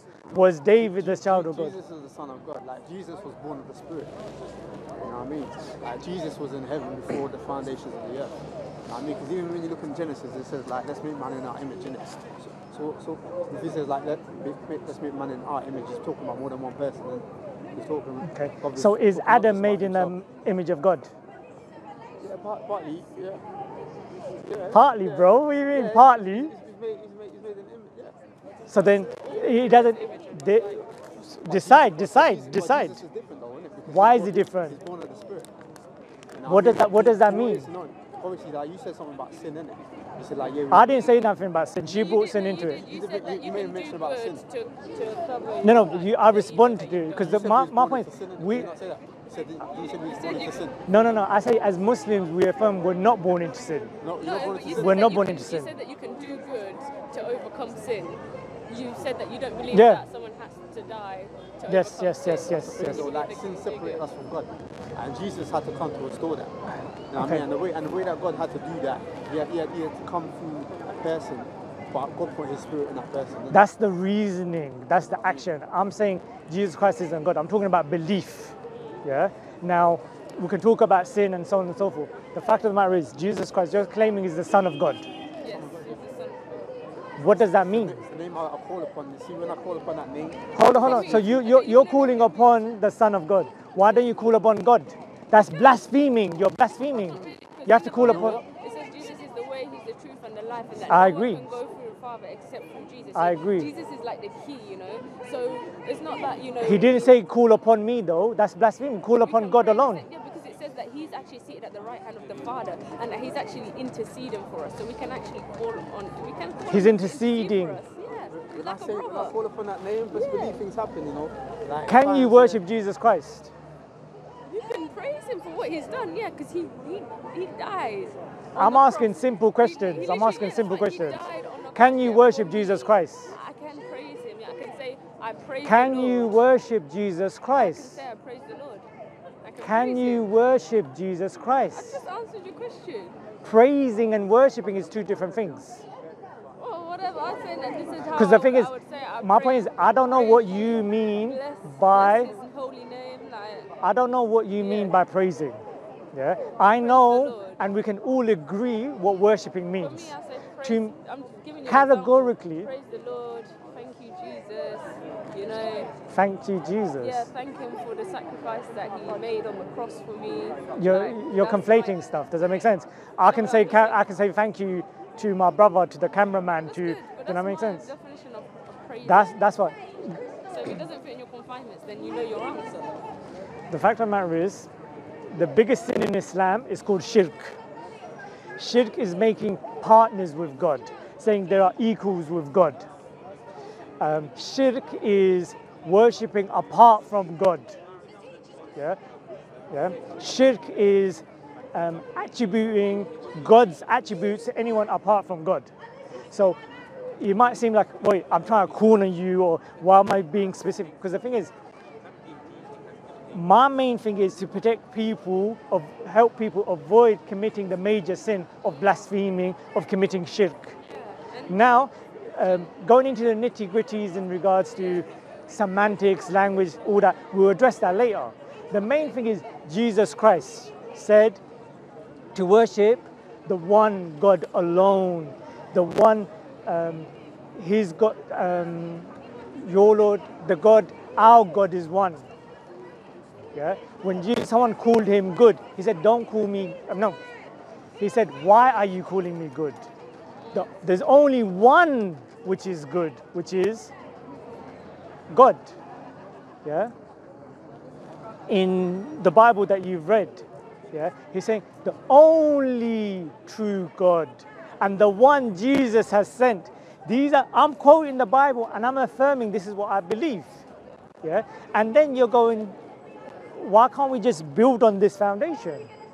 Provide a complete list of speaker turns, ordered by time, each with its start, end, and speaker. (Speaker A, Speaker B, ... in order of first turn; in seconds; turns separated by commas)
Speaker A: 0.3-4.2, Speaker B: 0.3-1.8, Speaker A: 5.0-8.3, Speaker A: 8.9-20.1, Speaker B: 18.3-21.1, Speaker A: 22.2-23.4, Speaker A: 24.4-28.2, Speaker B: 24.7-26.5, Speaker B: 28.7-33.0, Speaker C: 28.9-30.8, Speaker A: 31.4-35.5, Speaker B: 33.9-34.8, Speaker A: 36.3-41.0, Speaker B: 36.5-37.7, Speaker B: 40.7-42.8, Speaker C: 41.9-47.2, Speaker A: 42.8-44.5, Speaker B: 45.6-48.7, Speaker A: 47.1-50.8, Speaker C: 50.0-50.7, Speaker B: 50.9-53.9, Speaker A: 54.0-55.2, Speaker C: 54.2-64.0, Speaker B: 54.8-55.7, Speaker B: 59.7-60.0, Speaker B: 61.7-63.0, Speaker A: 62.5-66.5, Speaker A: 67.1-73.7, Speaker B: 67.2-67.4, Speaker B: 73.5-85.1, Speaker A: 75.2-75.5, Speaker C: 85.4-86.8, Speaker A: 85.5-86.0, Speaker B: 87.2-88.0, Speaker A: 87.2-91.2, Speaker B: 90.5-98.4, Speaker C: 90.8-92.6, Speaker C: 96.9-107.2, Speaker A: 98.0-98.4, Speaker B: 100.9-101.5, Speaker B: 103.1-103.7, Speaker B: 106.6-110.0, Speaker C: 109.2-119.4, Speaker B: 116.7-117.8, Speaker A: 118.3-122.6, Speaker C: 120.1-120.6, Speaker B: 121.9-123.5, Speaker C: 124.5-136.4, Speaker B: 128.6-131.2, Speaker B: 131.8-133.3, Speaker B: 135.6-138.0, Speaker C: 137.5-138.9, Speaker C: 139.4-140.3, Speaker B: 139.6-142.1, Speaker C: 141.7-143.2, Speaker B: 143.4-145.8, Speaker C: 146.6-153.7, Speaker B: 148.1-152.3, Speaker B: 153.8-155.6, Speaker C: 154.6-155.0, Speaker B: 156.1-160.9, Speaker C: 156.6-157.6, Speaker C: 159.8-165.9, Speaker B: 161.7-162.7, Speaker B: 166.1-167.3, Speaker C: 167.0-172.1, Speaker B: 170.8-177.9, Speaker C: 173.2-174.0, Speaker C: 176.7-179.6, Speaker B: 179.0-180.2, Speaker C: 180.5-183.1, Speaker B: 183.7-184.7, Speaker B: 185.3-187.6, Speaker B: 188.6-192.9, Speaker B: 194.0-197.8, Speaker B: 199.7-205.7, Speaker B: 206.3-206.6, Speaker B: 207.2-211.5, Speaker B: 213.3-220.8, Speaker C: 220.8-221.7, Speaker B: 221.5-231.4, Speaker B: 232.3-242.3, Speaker B: 243.5-247.2, Speaker B: 248.0-249.8, Speaker B: 250.5-253.9, Speaker B: 255.3-255.8, Speaker B: 256.6-256.9, Speaker B: 258.5-270.6, Speaker B: 271.2-272.8, Speaker B: 273.6-275.9